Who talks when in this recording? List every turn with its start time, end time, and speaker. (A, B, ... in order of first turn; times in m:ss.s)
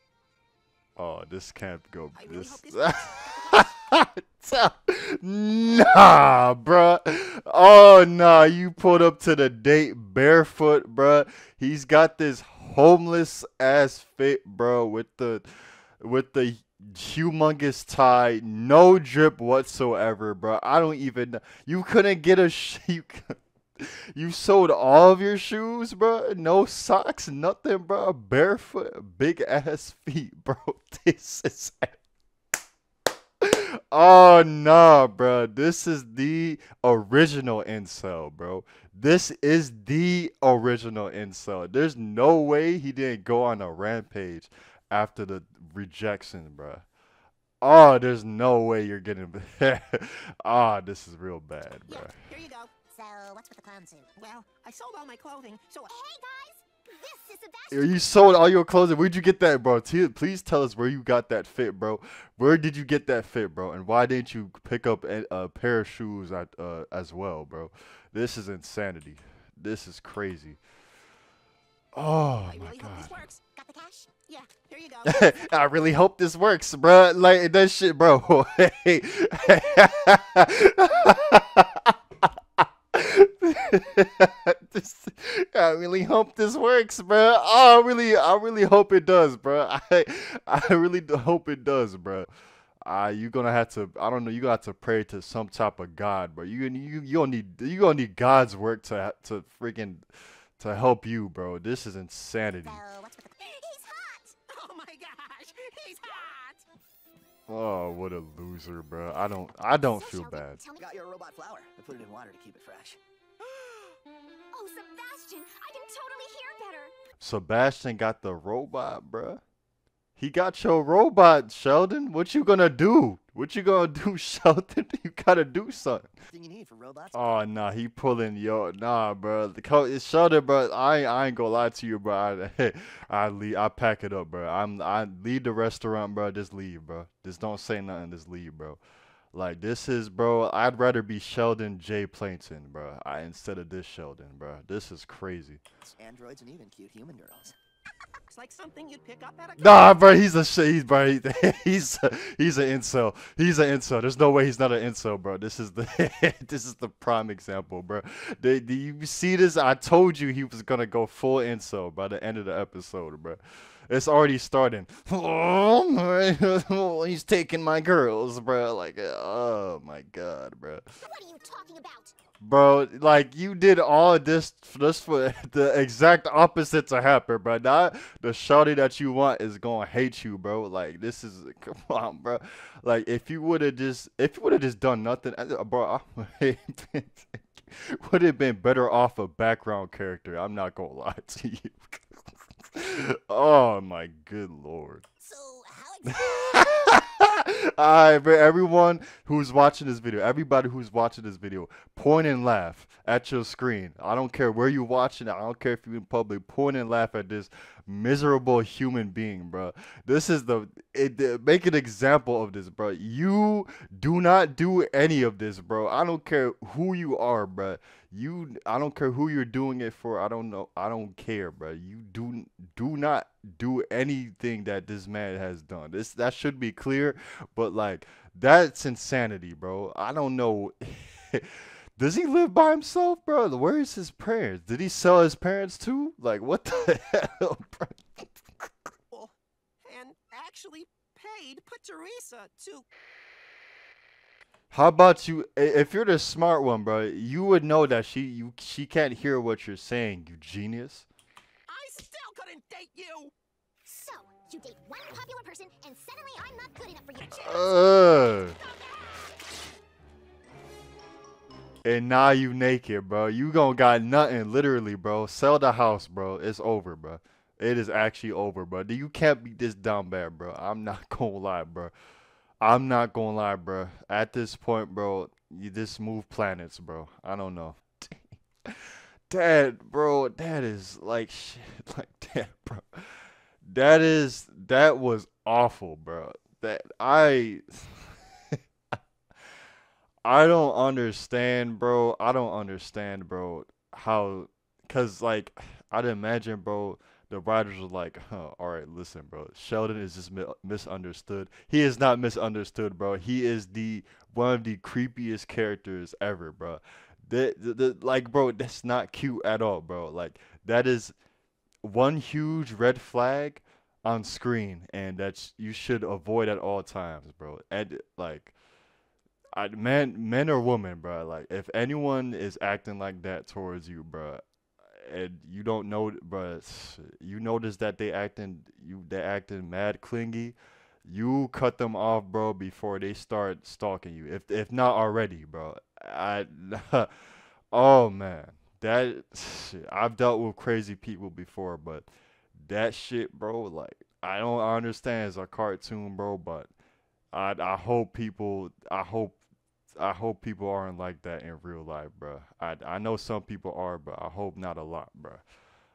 0:01.0-0:15.5 A
0:02.1-0:03.7 B
0:16.0-0:31.9 A
0:33.4-0:46.8 A
0:47.6-0:52.2 A
0:51.9-0:52.7 B
0:52.9-0:54.1 C
0:54.2-0:55.9 B
0:55.9-0:58.1 C
0:57.7-1:10.6 A
1:11.9-1:13.2 A
1:12.4-1:13.4 B
1:13.5-1:14.1 C
1:14.2-1:15.4 B
1:15.0-1:32.3 A
1:32.8-1:40.0 A
1:40.6-1:42.8 A
1:42.5-1:44.4 C
1:44.5-1:46.6 B
1:47.5-1:50.6 A
1:49.7-1:51.0 C
1:50.8-1:53.0 D
1:53.5-1:53.9 B
1:54.5-1:56.9 C
1:57.2-1:59.4 A
2:00.2-2:06.1 A
2:06.3-2:07.2 D
2:07.1-2:18.8 A
2:19.3-2:25.6 A
2:26.0-2:27.5 D
2:28.3-2:30.0 B
2:29.6-2:50.8 A
2:51.0-2:52.2 C
2:52.4-3:12.0 A
3:12.7-3:15.0 A
3:15.2-3:17.0 C
3:16.1-3:58.3 A
3:59.1-4:02.9 B
4:04.7-4:11.1 A
4:11.7-4:13.3 B
4:13.8-4:19.2 C
4:17.2-4:18.6 A
4:21.8-4:31.9 A
4:32.6-4:37.8 A
4:38.6-4:42.8 A
4:43.6-4:48.0 A
4:50.2-5:11.1 A
5:11.8-5:18.5 A
5:19.5-5:24.4 A
5:25.0-5:37.1 A
5:37.7-5:42.1 A
5:42.6-5:46.7 A
5:47.3-5:49.4 A
5:50.0-5:55.4 A